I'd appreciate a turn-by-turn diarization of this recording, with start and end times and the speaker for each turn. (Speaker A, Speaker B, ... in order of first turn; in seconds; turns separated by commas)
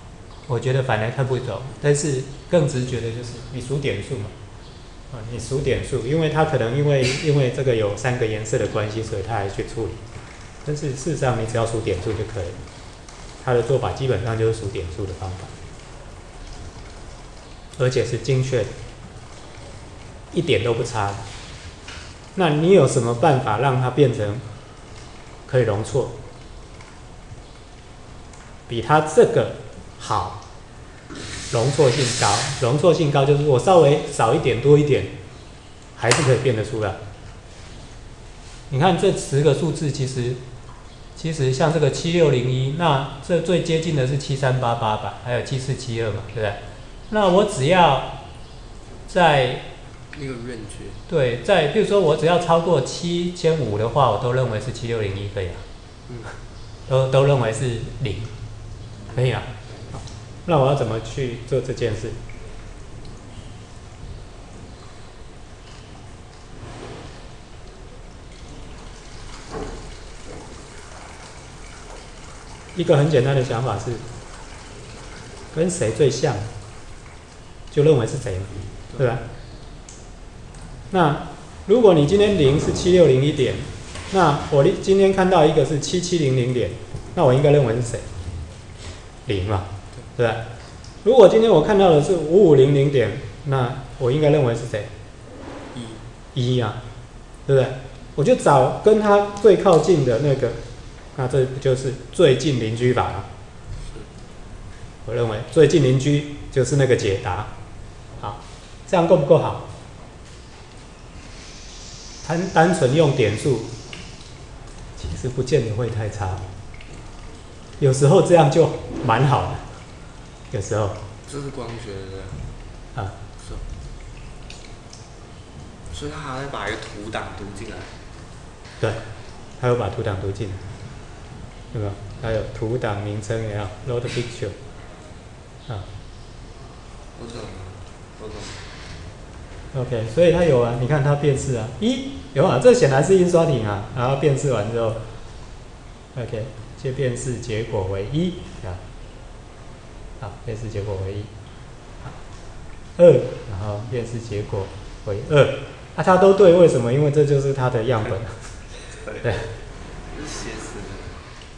Speaker A: 0.5-4.3, Speaker A: 5.1-10.0, Speaker A: 10.6-12.6, Speaker A: 13.4-15.5, Speaker A: 17.8-18.7, Speaker A: 20.3-21.2, Speaker A: 22.4-24.4, Speaker A: 25.5-26.1, Speaker A: 28.7-30.4, Speaker A: 31.5-35.1, Speaker A: 36.0-37.0, Speaker A: 38.7-40.4, Speaker A: 41.2-48.1, Speaker A: 49.1-49.6, Speaker B: 50.1-51.0, Speaker A: 51.1-55.6, Speaker B: 56.1-56.3, Speaker A: 56.9-58.3, Speaker A: 59.1-62.2, Speaker A: 72.8-74.0, Speaker A: 75.5-76.5, Speaker A: 77.7-79.2, Speaker A: 80.9-88.1, Speaker A: 89.3-90.4, Speaker A: 91.0-94.9, Speaker B: 95.7-96.0, Speaker A: 96.3-96.8, Speaker A: 97.5-100.6, Speaker A: 101.2-103.3, Speaker B: 103.8-104.1, Speaker A: 105.0-107.5, Speaker A: 108.2-109.6, Speaker A: 112.2-113.7, Speaker A: 115.0-116.5, Speaker A: 117.8-119.7, Speaker A: 120.5-121.0, Speaker B: 121.2-122.5, Speaker B: 123.4-123.7, Speaker B: 125.9-128.0, Speaker A: 129.6-130.7, Speaker A: 131.7-134.6, Speaker B: 137.2-138.7, Speaker A: 139.7-145.0, Speaker A: 146.2-148.8, Speaker A: 150.2-151.3, Speaker A: 153.0-158.6, Speaker B: 158.9-161.2, Speaker A: 159.2-159.5